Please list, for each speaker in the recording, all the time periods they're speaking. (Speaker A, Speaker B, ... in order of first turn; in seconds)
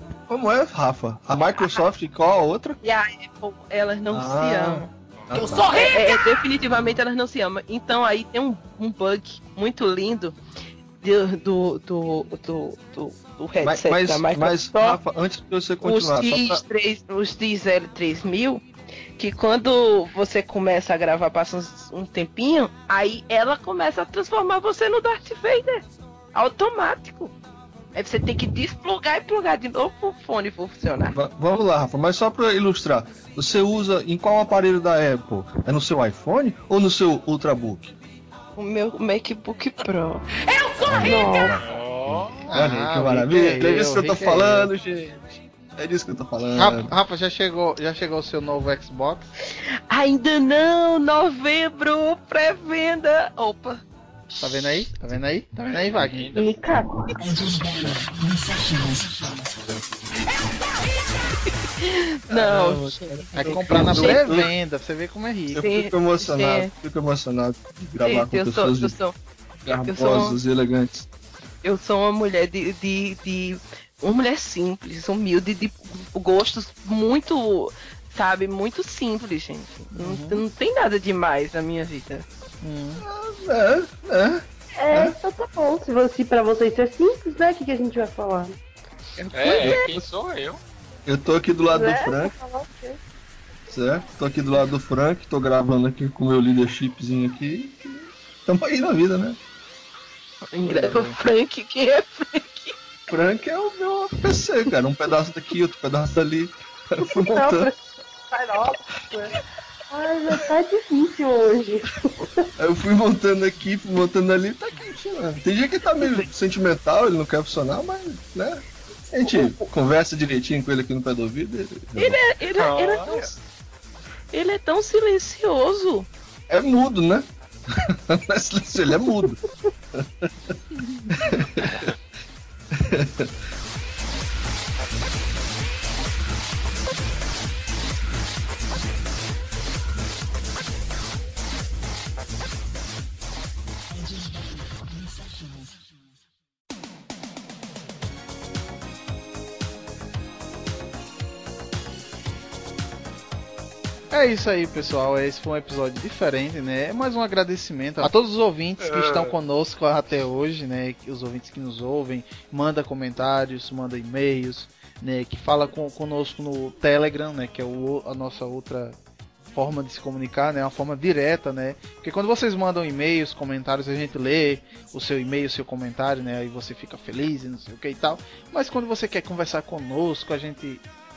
Speaker A: 0.3-2.8, 4.1-5.9, 13.6-16.6, 31.1-37.9, 40.8-46.9, 62.3-64.5, 65.5-69.0, 69.6-71.1, 83.0-85.2, 89.5-90.0, 91.0-92.3, 93.7-99.4, 100.7-101.1, 103.1-107.7, 112.6-122.2, 126.5-129.4, 129.9-130.5, 131.1-131.9, 132.7-133.3
Speaker B: 1.6-1.8, 2.8-4.9, 5.7-10.3, 11.0-15.0, 15.8-18.6, 19.2-27.3, 27.9-31.1, 38.5-40.2, 49.9-53.8, 61.8-64.4, 65.6-66.7, 68.0-69.1, 69.8-70.4, 71.6-82.2, 89.2-89.8, 100.5-102.7, 122.0-123.3, 124.3-126.1
Speaker C: 5.2-5.9, 41.6-42.4, 55.8-56.5, 89.3-90.6, 122.5-123.2, 131.7-131.9, 158.8-159.3
Speaker D: 40.9-41.6, 56.3-57.9, 84.8-88.5, 91.7-93.0, 107.1-109.4, 109.9-112.5
Speaker E: 42.5-44.7, 46.5-49.3, 54.4-56.4, 63.3-65.6, 79.9-80.4, 82.6-83.0, 100.7-101.0, 154.1-169.0, 169.5-180.8